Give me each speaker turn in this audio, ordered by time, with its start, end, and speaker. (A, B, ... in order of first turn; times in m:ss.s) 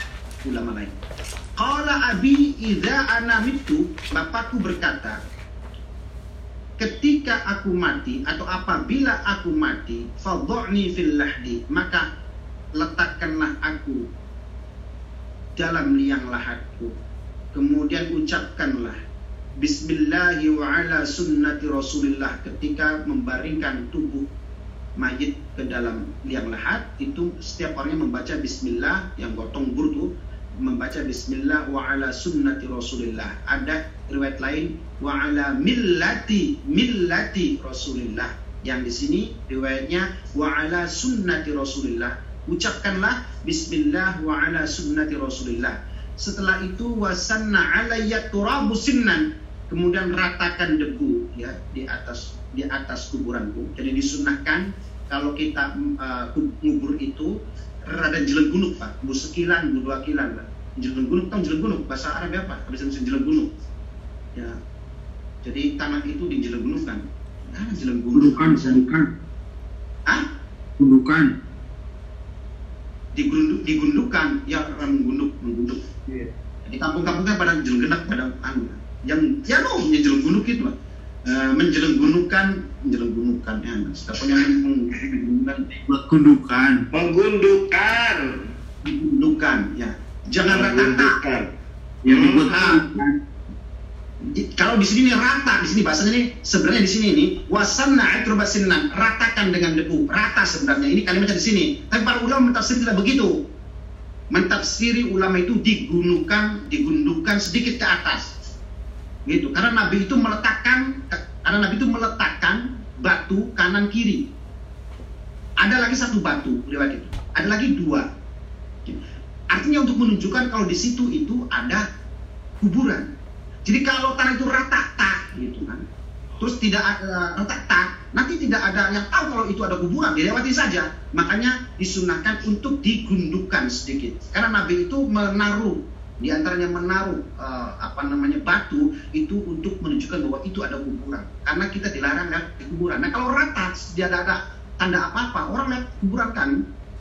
0:00.4-0:01.0 A
0:01.6-0:05.2 A
0:06.8-0:12.0 A
0:12.8-0:14.1 A
0:15.6-0:16.9 A
0:17.5-0:19.0 A
0:19.6-0:24.2 A
0:25.0-0:30.1 A
0:30.6-0:57.3 A
0:57.9-1:03.5 A
1:05.4-1:08.9 A
1:08.1-1:09.1 B
1:10.8-1:11.3 B
1:13.1-1:15.8 A
1:16.6-1:20.7 A
1:21.2-1:25.7 A
1:25.8-1:26.9 B
1:26.9-1:28.4 C
1:28.8-1:31.1 A
1:30.4-1:31.5 C
1:32.0-1:33.1 B
1:32.0-1:32.6 C
1:32.5-1:32.8 A
1:34.2-1:43.4 A
1:44.3-1:48.3 A
1:49.3-1:54.2 A
1:55.6-1:58.1 A
1:59.5-2:01.8 A
2:02.6-2:03.1 A
2:03.6-2:05.8 A
2:06.4-2:26.6 A